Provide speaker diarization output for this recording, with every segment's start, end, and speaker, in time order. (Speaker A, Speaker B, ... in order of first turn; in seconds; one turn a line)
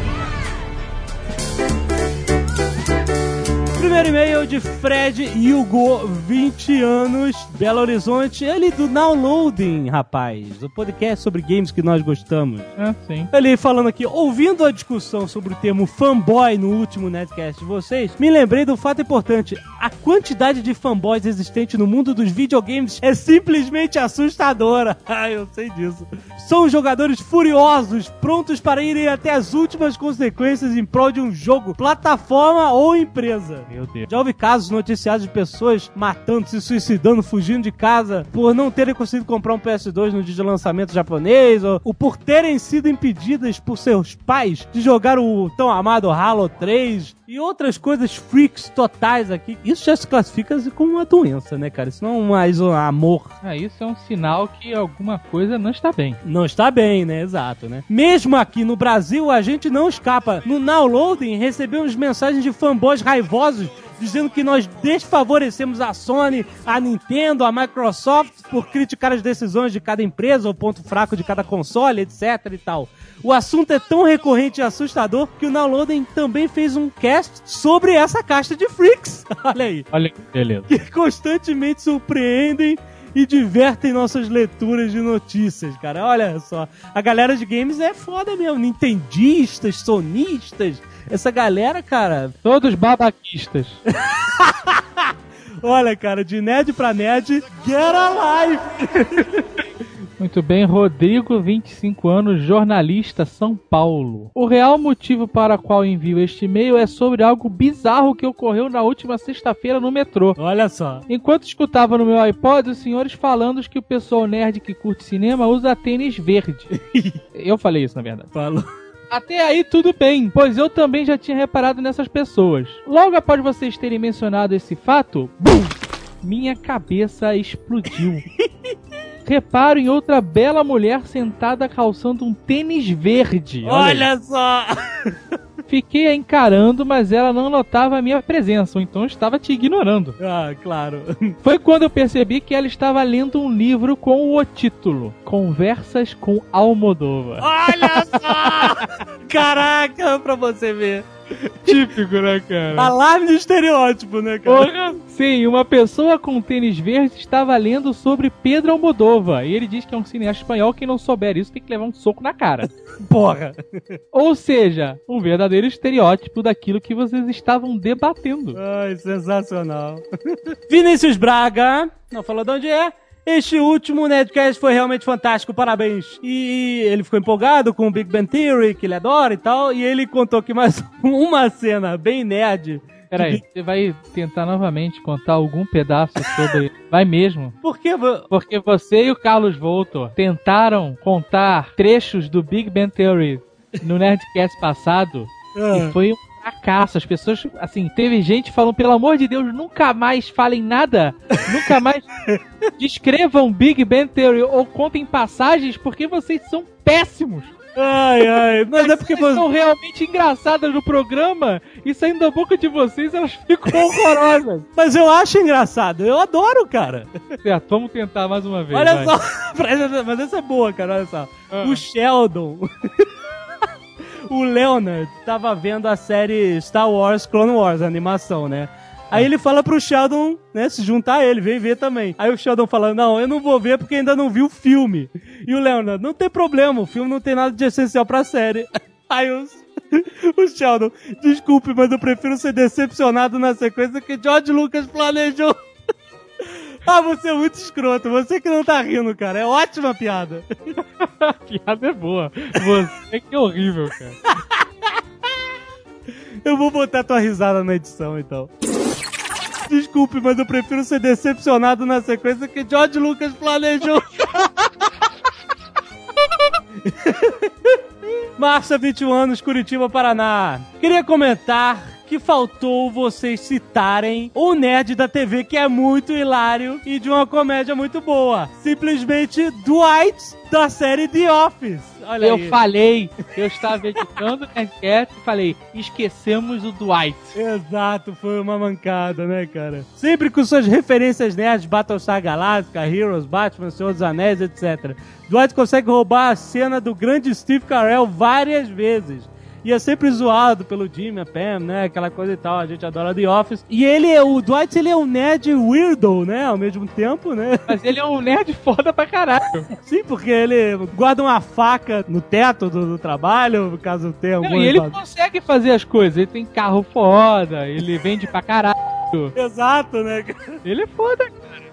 Speaker A: 3.8-12.7
Speaker B: 12.8-13.3
Speaker A: 13.3-53.3
Speaker B: 33.7-34.1
Speaker B: 53.4-56.2
Speaker A: 56.2-79.8
Speaker B: 79.9-80.7
Speaker A: 80.7-92.3
Speaker B: 92.4-93.8
Speaker A: 94.0-99.4
Speaker B: 100.2-110.4
Speaker A: 110.4-111.0
Speaker B: 111.1-116.7
Speaker A: 116.8-117.2
Speaker B: 117.3-118.3
Speaker A: 118.3-118.7
Speaker B: 119.1-128.2
Speaker A: 128.4-128.7
Speaker B: 129.2-134.1
Speaker A: 133.6-135.2
Speaker B: 135.7-140.2
Speaker A: 140.2-141.4
Speaker B: 141.4-148.8
Speaker A: 147.4-151.8
Speaker B: 151.7-152.9
Speaker A: 152.7-154.7
Speaker B: 154.4-162.7
Speaker A: 163.0-163.6
Speaker B: 164.1-168.6
Speaker A: 168.6-183.4
Speaker B: 183.1-187.6
Speaker A: 187.6-188.3
Speaker B: 188.3-202.1
Speaker A: 195.5-195.9
Speaker B: 202.8-207.5
Speaker A: 207.8-209.4
Speaker B: 208.8-214.7
Speaker A: 214.8-217.2
Speaker B: 217.4-219.1
Speaker A: 218.7-223.1
Speaker B: 221.5-221.8
Speaker A: 224.3-245.6
Speaker A: 246.4-250.4
Speaker B: 251.0-254.2
Speaker A: 256.4-258.5
Speaker A: 259.7-264.9
Speaker A: 266.8-267.8
Speaker A: 268.4-282.6
Speaker B: 282.2-287.4
Speaker A: 287.4-307.7
Speaker B: 307.7-309.7
Speaker A: 309.8-315.0
Speaker B: 314.4-319.3
Speaker A: 319.3-320.6
Speaker B: 320.6-321.5